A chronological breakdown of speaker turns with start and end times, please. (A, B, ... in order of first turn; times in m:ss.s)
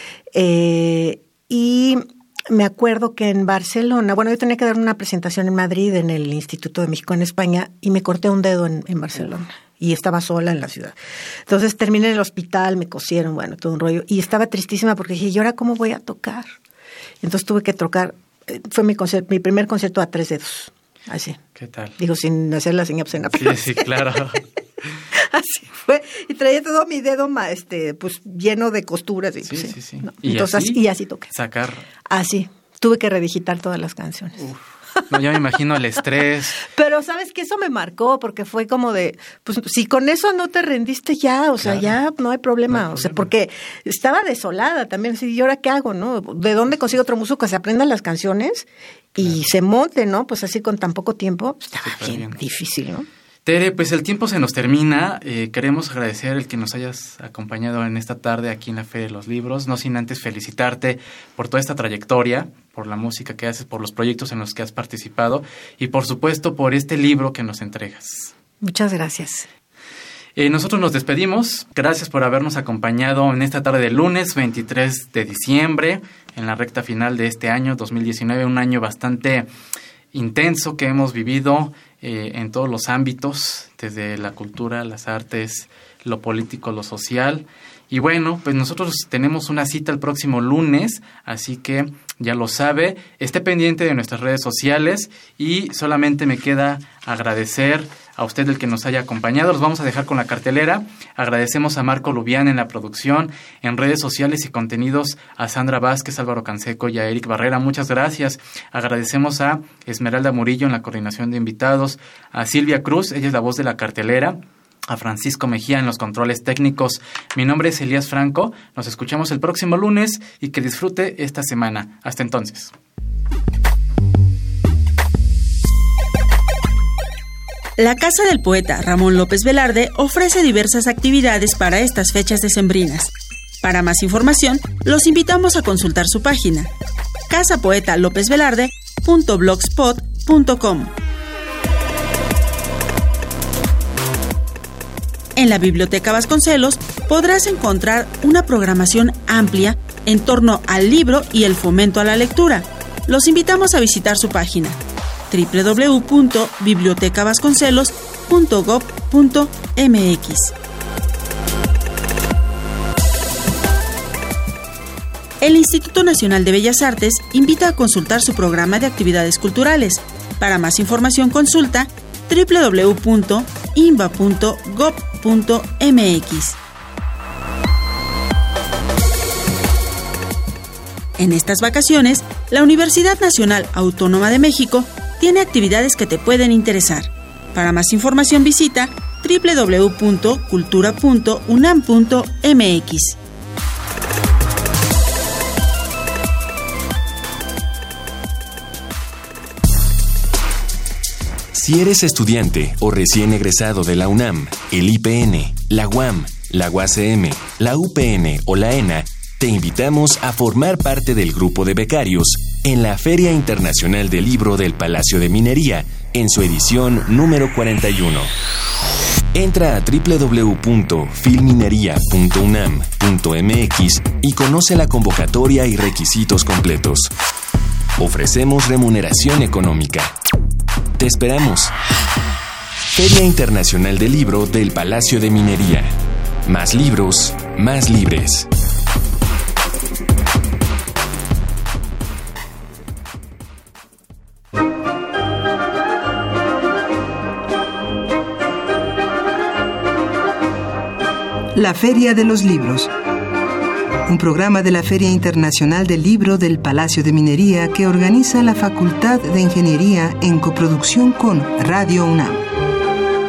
0:00.3-0:11.0 A
0:11.5-0:16.5 A
0:17.2-0:21.4 A
0:21.6-0:22.0 B
0:22.0-0:23.9 A
0:23.3-0:24.4 B
0:25.1-0:31.3 A
0:29.4-0:31.9 B
0:32.1-0:34.4 A
0:34.4-0:36.7 B
0:36.7-0:53.1 A
0:41.6-0:42.0 B
0:42.7-0:43.3 B
0:51.8-0:52.4 B
0:53.5-1:08.3 B
1:08.6-1:09.5 A
1:10.4-1:19.5 B
1:20.1-2:02.7 B
2:07.8-2:16.7 C
2:17.3-2:20.9 C
2:25.4-2:34.8 C
2:35.3-2:40.5 C
2:45.4-2:56.6 C
3:01.2-3:13.2 C
3:21.5-3:38.3 D
3:39.3-3:47.1 D
3:48.0-3:50.2 D
3:51.0-3:51.7 D
3:52.9-3:55.9 D
3:56.5-3:58.5 D
4:11.6-4:12.9 E
4:14.1-4:22.5 E